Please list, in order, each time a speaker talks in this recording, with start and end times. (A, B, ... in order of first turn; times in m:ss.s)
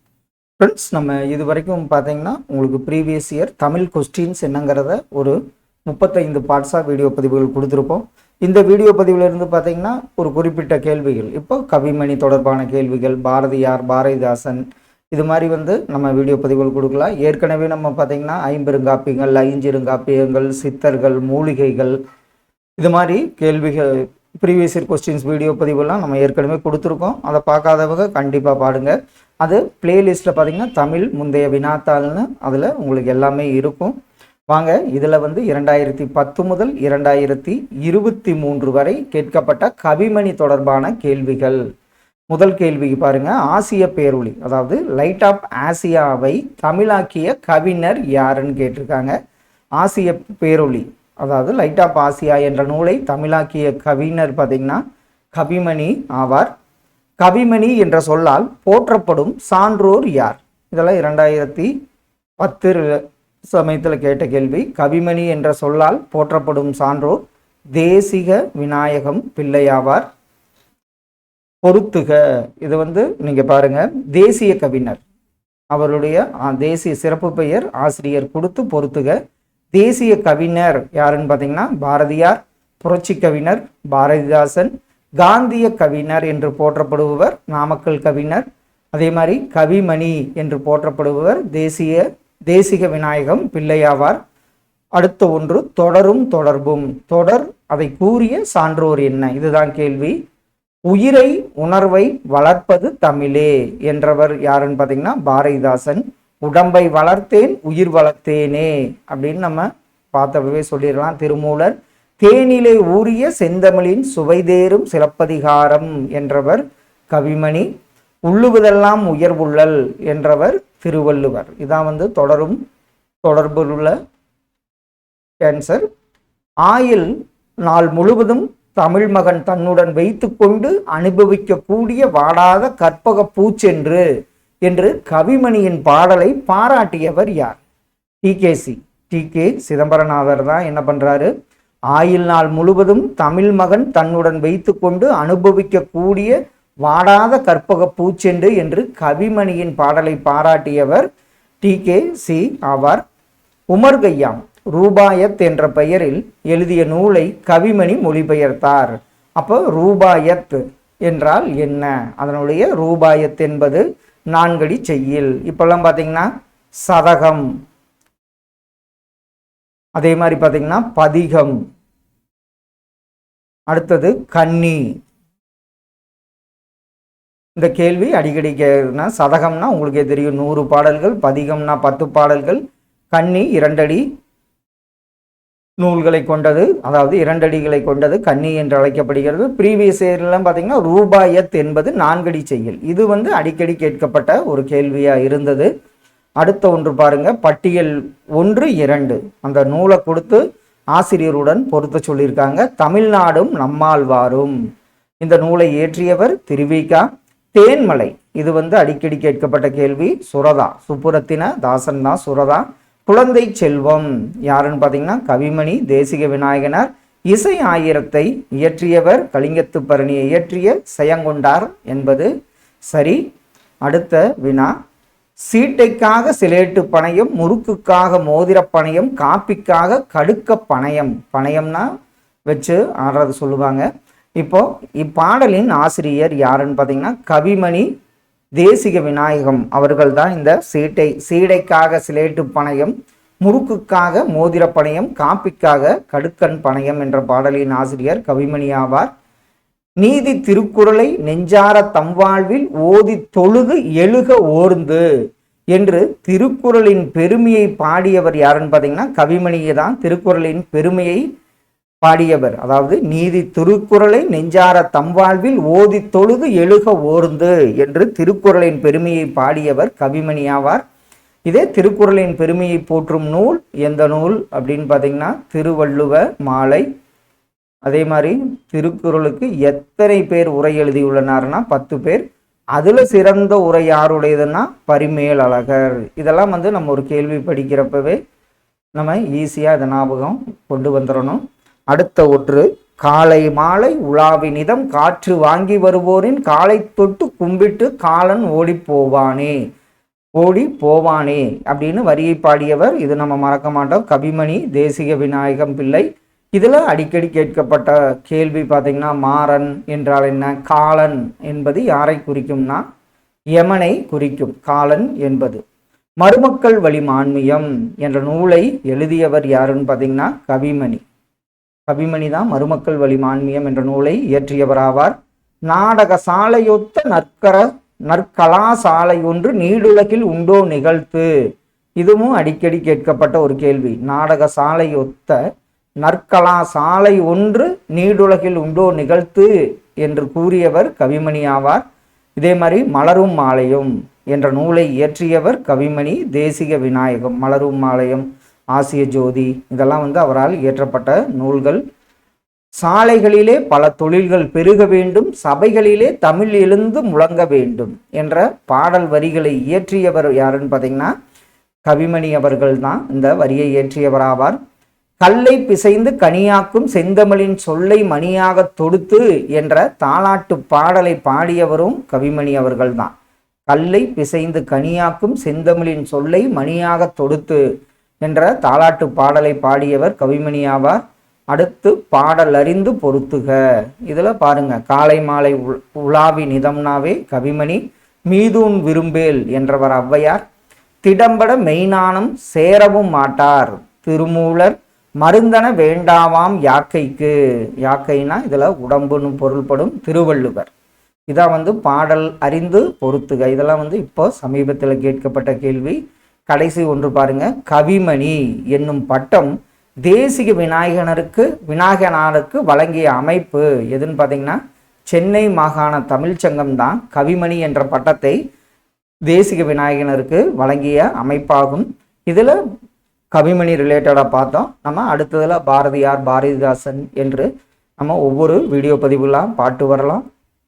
0:00.6-0:22.0 A
0:22.8-0:33.9 A
0:34.5-0:41.6 A
0:42.3-0:49.1 A
0:49.8-0:54.8 A
0:55.3-0:56.5 A
0:57.2-1:01.7 A
1:02.4-1:07.2 A
1:07.7-1:10.1 A
1:11.6-1:15.0 A
1:15.7-1:19.2 A
1:19.7-1:34.2 A
1:35.0-1:40.2 A
1:40.9-1:57.7 A
1:58.3-2:02.6 A
2:03.2-2:03.9 A
2:05.4-2:05.8 A
2:06.6-2:07.1 A
2:07.6-2:14.0 A
2:14.6-2:17.6 A
2:18.2-2:21.3 A
2:21.9-2:31.1 A
2:31.6-2:33.0 A
2:33.7-2:46.3 A
2:46.8-2:47.5 A
2:50.0-2:51.6 A
2:53.7-2:54.8 A
2:57.6-3:02.6 A
3:03.1-3:04.0 A
3:05.8-3:15.7 A
3:16.4-3:20.4 A
3:20.9-3:24.6 A
3:25.2-3:42.3 A
3:42.9-3:43.2 A
3:43.8-3:44.7 A
3:45.5-3:51.9 A
3:52.5-3:53.8 A
3:54.4-3:57.9 A
3:58.6-4:09.1 A
4:10.0-4:15.0 A
4:15.7-4:21.2 A
4:22.0-4:30.8 A
4:31.4-4:36.8 A
4:37.8-4:48.2 A
4:49.0-4:59.5 A
5:00.4-5:12.8 A
5:13.6-5:15.6 A
5:16.2-5:21.0 A
5:21.9-5:25.1 A
5:25.7-5:31.3 A
5:32.0-5:35.4 A
5:36.0-5:39.5 A
5:40.0-5:41.8 A
5:42.4-5:51.8 A
5:52.8-6:01.1 A
6:01.8-6:04.6 A
6:05.2-6:13.1 A
6:13.7-6:17.6 A
6:18.2-6:30.4 A
6:31.0-6:40.7 A
6:41.3-6:49.5 A
6:50.0-6:54.6 A
6:55.1-6:58.4 A
6:59.3-7:02.6 A
7:03.3-7:07.5 A
7:08.0-7:10.2 A